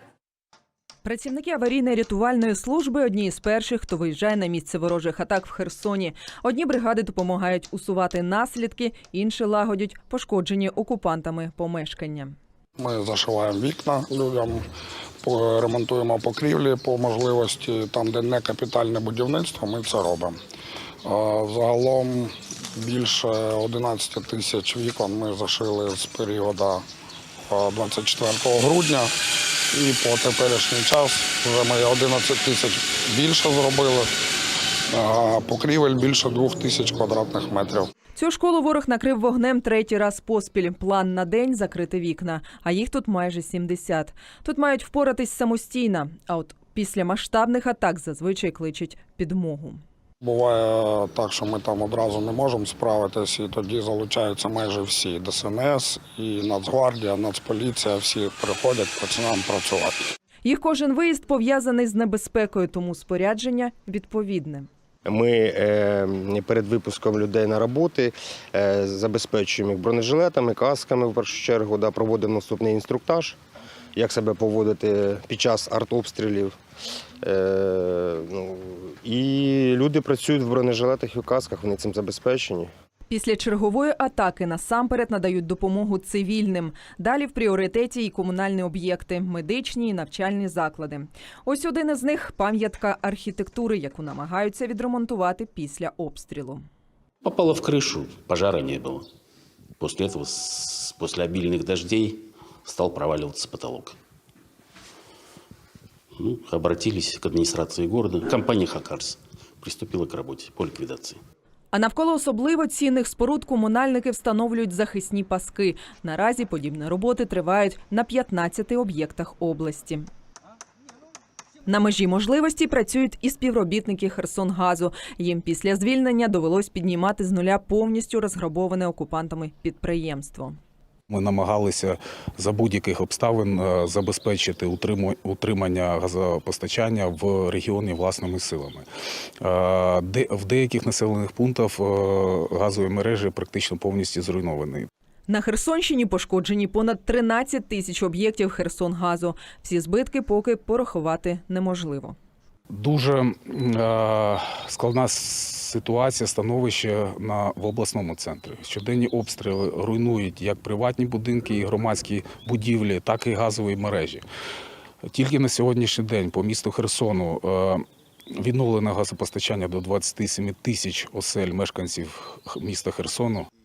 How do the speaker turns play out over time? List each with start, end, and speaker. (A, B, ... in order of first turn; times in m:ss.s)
0:01.0-0:12.4 A
0:12.8-0:14.6 B
0:15.2-0:20.4 B
0:21.0-0:26.8 B
0:27.5-0:29.1 B
0:29.7-0:34.1 B
0:34.9-0:37.9 B
0:38.1-0:49.8 A
0:50.2-1:00.0 B
1:00.4-1:04.7 A
1:05.1-1:13.4 C
1:14.0-1:16.6 C
1:17.2-1:22.7 C
1:23.1-1:36.6 A
1:37.2-1:39.1 D
1:39.8-1:44.0 D
1:46.2-1:51.2 D
1:51.7-2:00.1 A
2:01.7-2:10.6 A
2:11.1-2:18.9 E
2:19.4-2:24.9 E
2:25.3-2:32.2 A
2:32.7-2:44.2 E
2:45.1-2:47.8 E
2:48.4-2:53.5 E